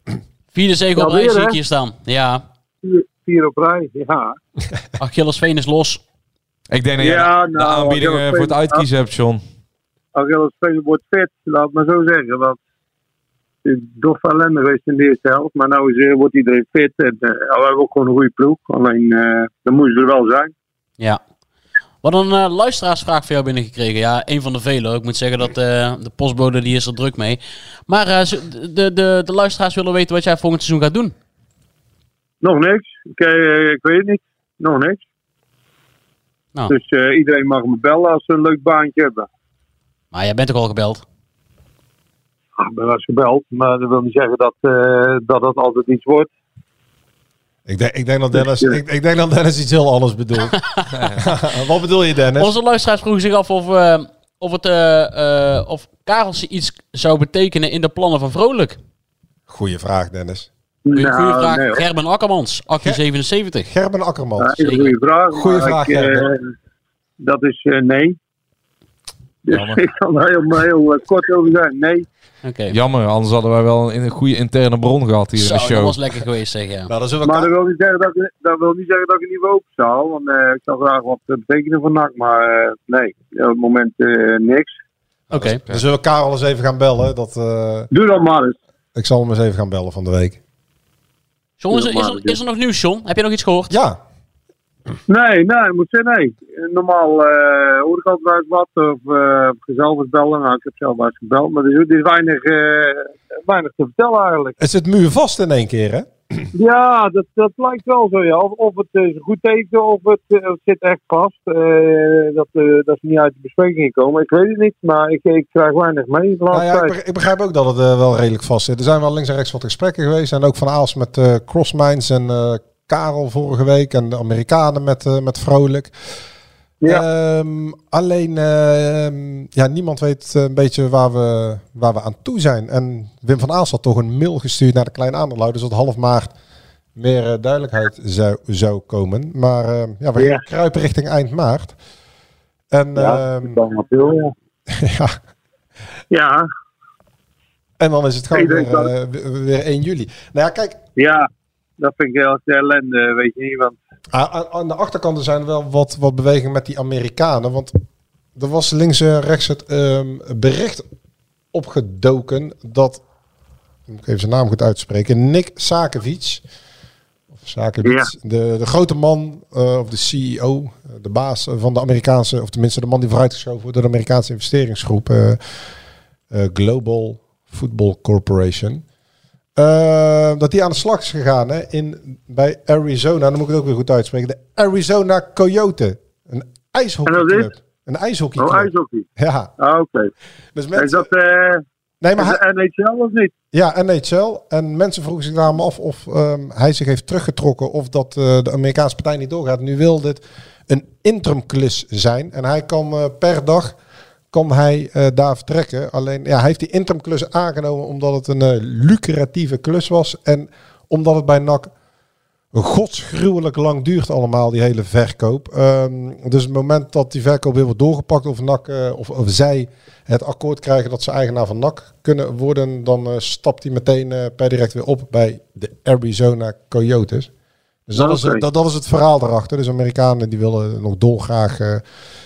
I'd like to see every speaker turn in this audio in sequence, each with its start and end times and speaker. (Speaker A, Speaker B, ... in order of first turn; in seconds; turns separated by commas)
Speaker A: 0.5-2.4, Speaker B: 0.9-1.6, Speaker B: 2.8-4.4, Speaker A: 5.0-6.0, Speaker C: 6.7-9.4, Speaker B: 7.0-8.8, Speaker B: 10.1-12.6, Speaker B: 13.6-20.5, Speaker A: 22.0-31.1, Speaker B: 32.4-35.0, Speaker B: 36.7-39.3, Speaker A: 40.1-41.0, Speaker B: 42.6-46.3, Speaker D: 47.6-50.6, Speaker B: 48.4-48.8, Speaker C: 50.9-51.2, Speaker D: 51.1-52.5, Speaker A: 52.4-58.8, Speaker D: 59.5-60.5, Speaker B: 60.9-61.8, Speaker A: 60.9-63.7, Speaker D: 63.6-64.8, Speaker B: 64.4-66.4, Speaker A: 64.6-64.9, Speaker D: 65.3-66.2, Speaker B: 67.2-68.2, Speaker B: 69.5-72.1, Speaker C: 69.5-69.8, Speaker A: 72.4-72.7, Speaker C: 72.7-76.0, Speaker A: 75.4-76.9, Speaker D: 76.9-77.5, Speaker B: 77.2-84.8, Speaker D: 85.3-87.9, Speaker A: 85.3-85.6, Speaker B: 87.9-88.5, Speaker D: 88.9-90.4, Speaker A: 91.6-93.7, Speaker B: 91.7-92.4, Speaker D: 93.7-94.0, Speaker B: 95.1-104.5, Speaker D: 104.6-106.5, Speaker B: 106.5-116.9, Speaker D: 116.5-125.9, Speaker D: 126.8-136.3, Speaker D: 136.9-141.8, Speaker B: 140.2-140.4, Speaker D: 142.7-143.6, Speaker B: 142.9-144.3, Speaker D: 144.7-145.2, Speaker B: 146.1-146.4, Speaker D: 147.8-150.8, Speaker B: 148.3-148.9, Speaker B: 150.9-153.8, Speaker D: 154.1-157.7, Speaker D: 158.3-160.8, Speaker D: 161.5-163.0, Speaker D: 163.9-166.4, Speaker D: 167.3-175.4, Speaker B: 167.8-168.1, Speaker D: 176.3-178.8, Speaker D: 179.6-189.5, Speaker B: 187.1-187.5, Speaker B: 188.4-189.1, Speaker B: 189.6-190.1, Speaker D: 190.5-191.1, Speaker B: 190.7-191.6, Speaker D: 192.0-192.4, Speaker B: 192.2-193.3, Speaker D: 193.5-203.8, Speaker D: 204.3-211.7, Speaker D: 212.5-227.3, Speaker D: 227.9-231.8, Speaker B: 227.9-228.4